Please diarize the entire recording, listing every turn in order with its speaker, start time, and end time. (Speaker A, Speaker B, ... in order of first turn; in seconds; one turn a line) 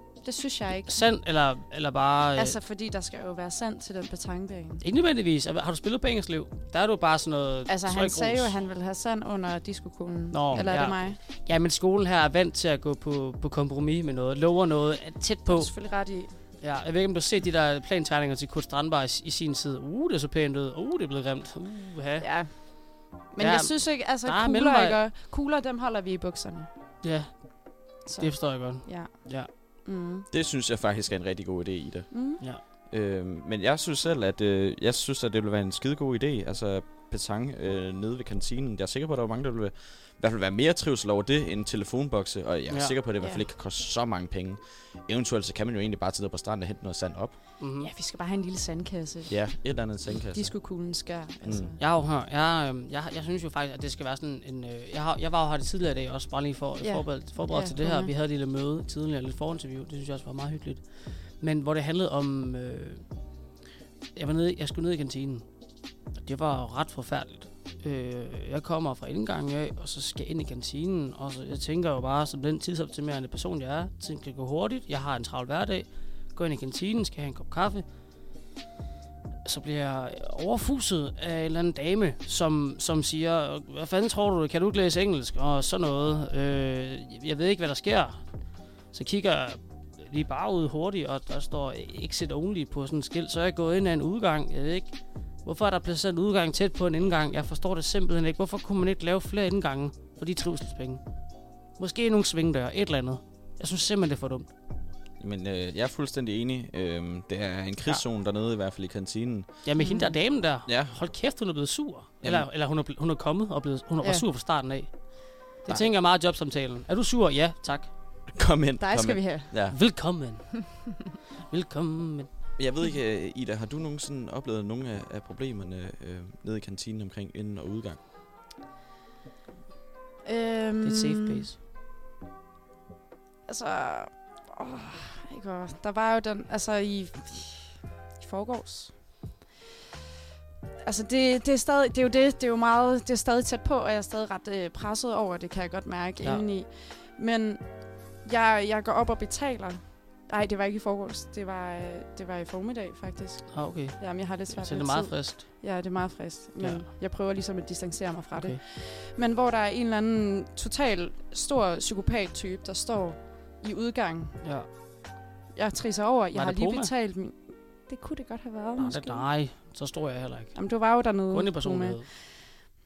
Speaker A: 0.2-1.0
Speaker B: 0.9-2.6
Speaker A: 2.4-4.8
Speaker B: 4.8-8.5
Speaker A: 7.7-11.2
Speaker B: 10.3-15.7
Speaker A: 15.5-16.4
Speaker B: 16.6-22.8
Speaker A: 22.2-26.7
Speaker B: 23.4-25.0
Speaker B: 27.0-29.5
Speaker A: 28.1-30.3
Speaker C: 30.3-32.3
Speaker A: 32.1-32.4
Speaker C: 32.9-47.4
Speaker B: 42.7-43.0
Speaker B: 47.6-47.9
Speaker A: 47.8-49.5
Speaker C: 49.3-50.5
Speaker A: 50.3-51.8
Speaker C: 51.4-51.8
Speaker B: 51.8-63.1
Speaker A: 56.8-58.1
Speaker B: 64.2-65.5
Speaker B: 66.2-77.8
Speaker B: 79.5-88.2
Speaker B: 88.9-101.0
Speaker B: 101.8-104.5
Speaker C: 105.2-109.6
Speaker B: 109.6-117.9
Speaker A: 109.8-110.2
Speaker C: 110.7-111.0
Speaker C: 112.2-112.5
Speaker A: 114.0-114.3
Speaker C: 118.3-119.8
Speaker A: 118.8-119.6
Speaker B: 119.7-120.6
Speaker B: 121.5-122.3
Speaker C: 122.6-128.0
Speaker A: 130.2-131.4
Speaker B: 130.8-131.6
Speaker A: 133.5-139.2
Speaker A: 140.8-164.4
Speaker B: 153.5-155.4
Speaker B: 156.6-156.9
Speaker B: 158.3-158.6
Speaker B: 164.4-164.7
Speaker A: 165.5-169.3
Speaker B: 166.3-166.9
Speaker B: 168.8-170.6
Speaker A: 170.5-172.1
Speaker B: 171.3-172.1